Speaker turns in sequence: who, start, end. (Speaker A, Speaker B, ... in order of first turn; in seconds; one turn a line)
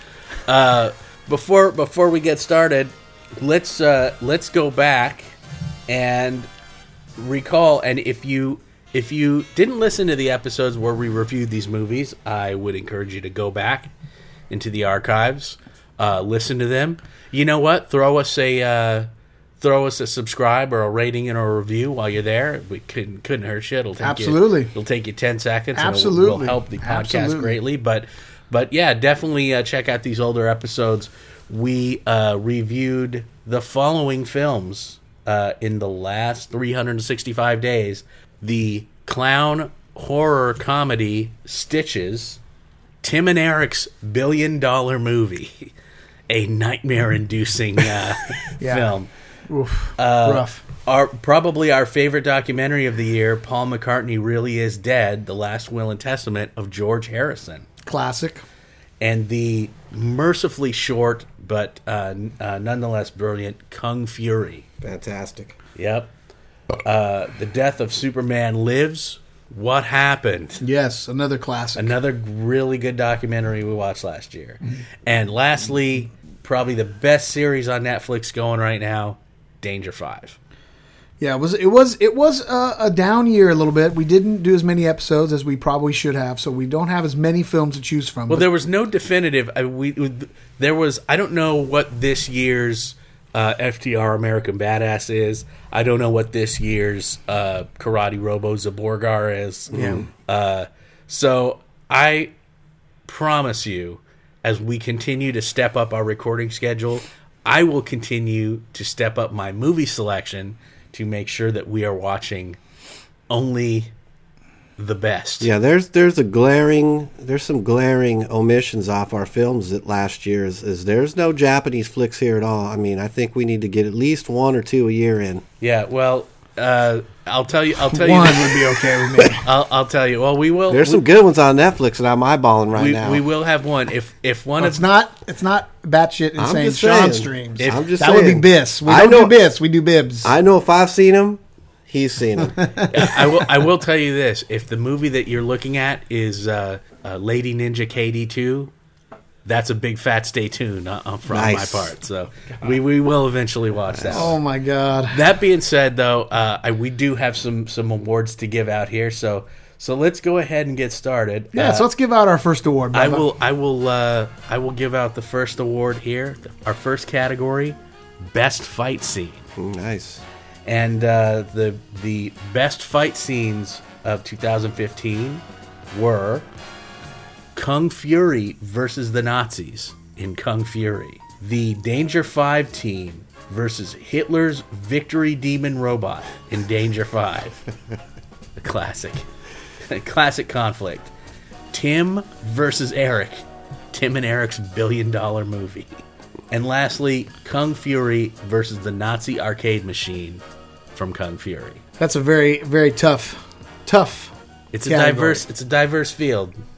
Speaker A: 0.5-5.3
Speaker A: 5.9-6.5
Speaker A: 7.2-13.9
Speaker A: 14.5-19.1
Speaker A: 19.6-42.4
Speaker B: 24.0-24.7
Speaker B: 25.8-27.5
Speaker A: 43.0-45.7
Speaker A: 46.3-49.1
Speaker B: 48.6-48.9
Speaker B: 49.5-50.6
Speaker A: 50.0-57.6
Speaker B: 57.9-58.4
Speaker A: 59.0-64.7
Speaker C: 64.8-65.5
Speaker A: 65.8-66.1
Speaker A: 66.8-70.6
Speaker B: 70.6-71.9
Speaker A: 71.8-80.4
Speaker B: 81.2-88.5
Speaker A: 88.3-102.3
Speaker C: 99.7-100.0
Speaker B: 99.7-100.0
Speaker A: 103.0-112.6
Speaker A: 113.3-113.9
Speaker A: 114.8-115.5
Speaker C: 115.4-125.4
Speaker A: 125.6-128.7
Speaker B: 127.9-129.4
Speaker A: 129.4-131.0
Speaker C: 130.7-133.2
Speaker A: 132.8-134.8
Speaker B: 134.6-140.3
Speaker C: 136.4-139.4
Speaker A: 137.6-137.9
Speaker C: 140.2-142.6
Speaker B: 142.4-142.9
Speaker A: 142.9-148.7
Speaker A: 149.4-154.3
Speaker C: 151.3-151.9
Speaker C: 153.9-154.3
Speaker B: 154.1-155.2
Speaker A: 155.1-161.8
Speaker B: 161.5-163.2
Speaker A: 162.9-169.4
Speaker C: 169.6-170.2
Speaker A: 170.7-176.4
Speaker A: 177.5-187.6
Speaker A: 188.6-189.2
Speaker A: 189.9-191.1
Speaker A: 191.7-195.9
Speaker A: 196.5-200.4
Speaker A: 200.9-201.8
Speaker B: 202.0-204.3
Speaker A: 204.7-206.5
Speaker B: 204.8-205.4